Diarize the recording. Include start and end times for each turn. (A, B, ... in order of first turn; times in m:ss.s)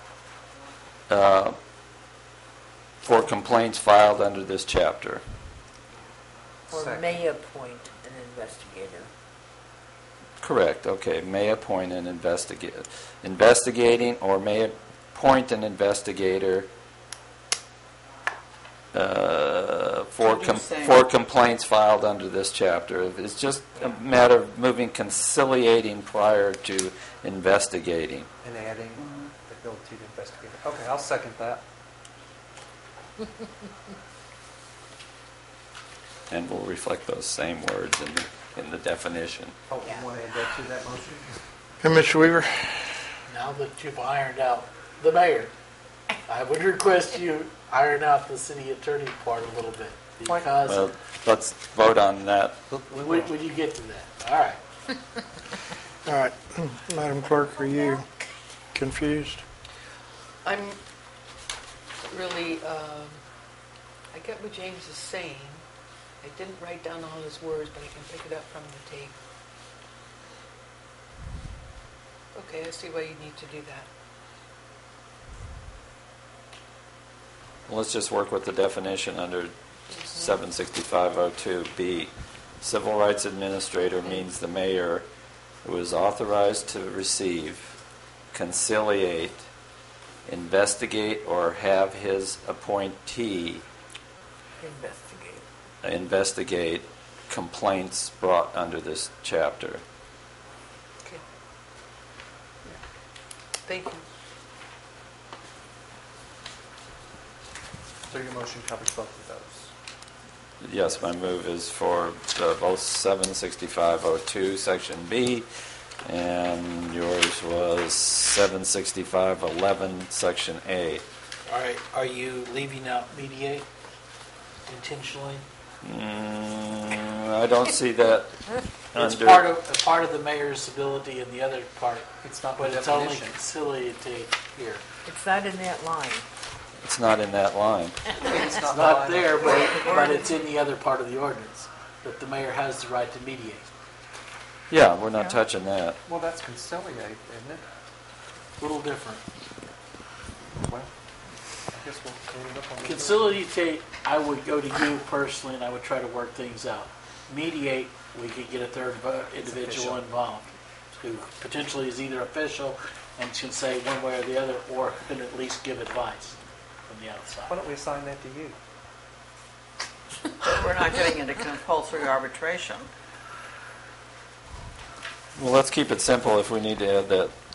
0:01.1-0:01.6 A
0:03.0-0:05.2 A
0:06.7-0:07.2 B
0:06.7-0:09.1 C
0:10.4-0:16.7 A
0:18.9-0:28.3 A
0:20.2-0:21.0 D
0:28.4-0:31.6 B
0:36.3-0:39.6 A
0:39.7-0:41.4 B
0:41.8-0:42.9 E
0:43.3-0:45.5 F
0:46.3-0:50.9 F
0:50.7-0:52.6 A
0:52.7-0:53.3 B
0:52.9-0:54.6 F
0:56.0-0:58.1 E
0:58.7-0:59.4 E
1:00.4-1:00.8 G
1:02.1-1:03.2 G
1:04.1-1:05.6 G
1:06.2-1:09.1 G
1:12.3-1:13.9 G
1:17.7-1:19.5 A
1:19.9-1:20.3 G
1:20.1-1:25.1 A
1:25.6-1:27.7 A
1:28.3-1:29.4 A
1:30.3-1:33.6 A
1:34.6-1:35.4 C
1:35.8-1:39.8 A
1:43.6-1:44.0 G
1:48.1-1:49.7 B
1:50.6-1:55.4 A
1:56.0-2:01.0 A
2:01.5-2:03.6 F
2:04.7-2:05.4 F
2:05.8-2:08.3 A
2:08.9-2:09.5 A
2:08.9-2:14.8 F
2:12.2-2:13.4 B
2:15.0-2:16.2 C
2:16.8-2:18.0 A
2:18.2-2:19.6 B
2:18.5-2:23.7 F
2:19.7-2:20.1 D
2:24.7-2:26.0 A
2:25.1-2:25.4 C
2:26.0-2:27.6 B
2:28.6-2:29.2 F
2:30.6-2:30.9 B
2:31.7-2:33.4 B
2:32.8-2:47.6 F
2:39.4-2:40.0 B
2:47.5-2:48.6 B
2:50.4-2:52.9 D
2:55.4-2:57.3 A